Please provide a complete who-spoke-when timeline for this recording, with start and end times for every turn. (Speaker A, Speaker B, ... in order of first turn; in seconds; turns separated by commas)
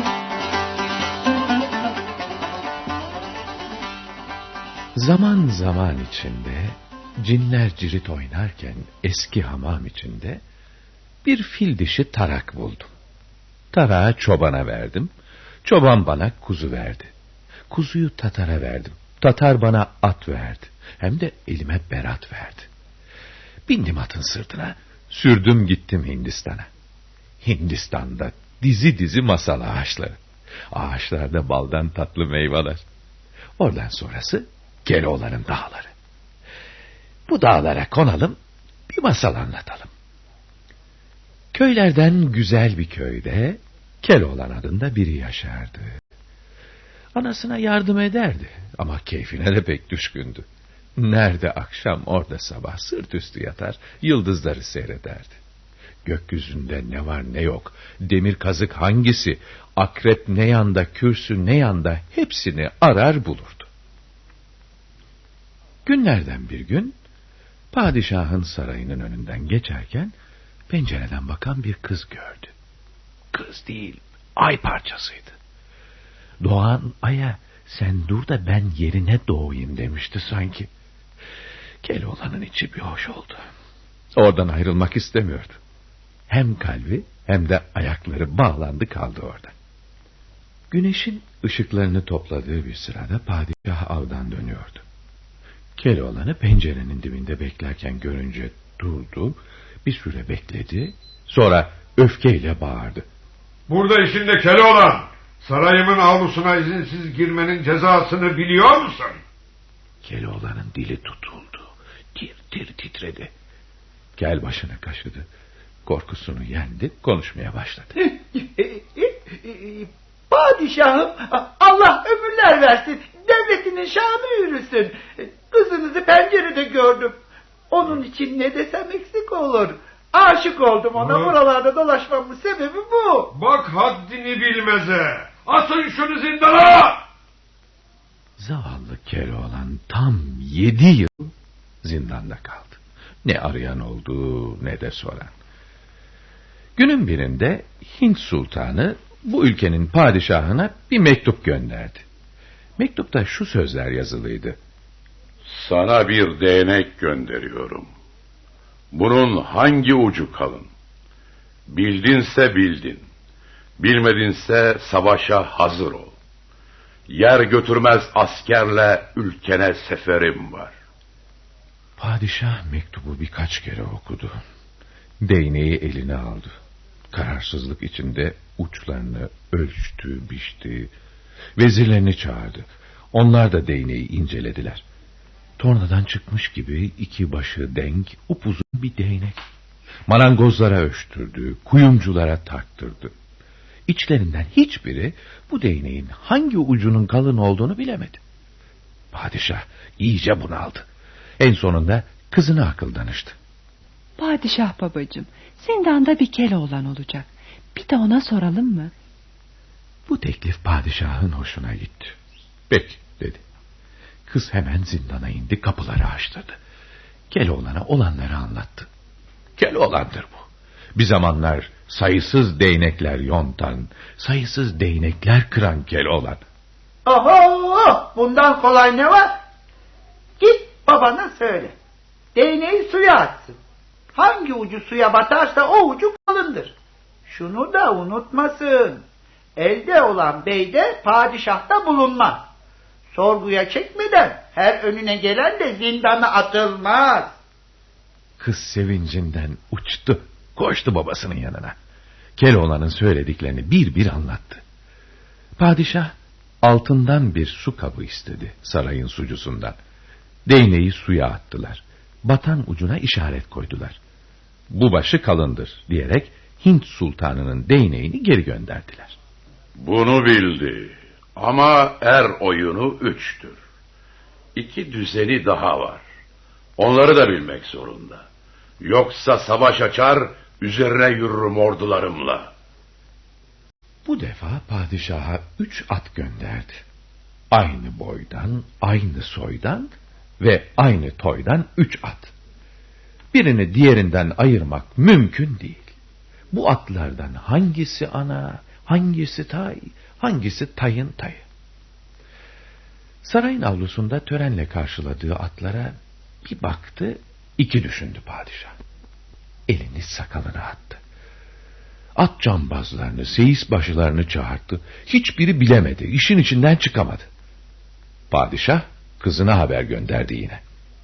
Speaker A: 4.9-10.4, Speaker A: 11.2-12.9, Speaker A: 13.7-15.1, Speaker A: 15.6-17.1, Speaker A: 17.7-22.7, Speaker A: 23.7-26.7, Speaker A: 27.4-30.2, Speaker A: 30.7-32.8, Speaker A: 33.6-35.9, Speaker A: 37.3-38.4, Speaker A: 38.9-39.9, Speaker A: 41.5-46.0, Speaker A: 47.1-50.5, Speaker A: 51.0-55.4, Speaker A: 56.0-63.7, Speaker A: 65.8-67.0, Speaker A: 67.7-70.1, Speaker A: 70.7-72.5, Speaker A: 73.3-75.4, Speaker A: 76.4-80.7, Speaker A: 81.8-83.4, Speaker A: 84.2-85.6, Speaker A: 86.3-89.5, Speaker A: 90.7-94.8, Speaker A: 95.8-103.0, Speaker B: 103.7-109.2, Speaker A: 110.0-113.3, Speaker A: 114.2-115.3, Speaker A: 115.8-117.9, Speaker C: 118.0-133.3, Speaker B: 130.9-131.3, Speaker B: 133.3-137.1, Speaker A: 138.4-145.3, Speaker A: 146.8-152.0, Speaker A: 152.8-154.6, Speaker D: 155.5-157.9, Speaker D: 158.9-160.7, Speaker D: 161.7-163.0, Speaker D: 163.8-166.1, Speaker D: 167.1-170.7, Speaker A: 172.0-174.4, Speaker A: 175.2-176.6, Speaker A: 177.1-180.9, Speaker A: 181.6-184.8, Speaker A: 185.6-189.4, Speaker A: 190.1-193.1, Speaker A: 193.9-198.2, Speaker A: 199.1-200.9, Speaker A: 201.4-203.4, Speaker E: 204.2-208.9, Speaker A: 210.1-212.2, Speaker A: 212.7-213.4, Speaker A: 214.3-216.6, Speaker A: 217.3-218.9, Speaker A: 219.6-226.4, Speaker C: 227.0-229.3, Speaker C: 230.4-231.7, Speaker C: 232.3-233.6, Speaker C: 234.1-236.7, Speaker C: 237.2-239.0, Speaker C: 239.6-242.5, Speaker C: 243.1-247.4, Speaker A: 248.4-251.7, Speaker A: 252.4-254.6, Speaker A: 255.6-259.8, Speaker A: 260.4-264.0, Speaker A: 264.7-269.2, Speaker D: 269.8-273.6, Speaker D: 274.6-276.0, Speaker D: 276.8-278.2, Speaker D: 278.8-282.5, Speaker A: 284.0-286.8, Speaker A: 287.5-292.3, Speaker A: 293.3-295.9, Speaker A: 296.5-301.4, Speaker A: 303.2-308.7, Speaker A: 309.7-311.0, Speaker A: 312.2-317.3, Speaker A: 318.3-320.6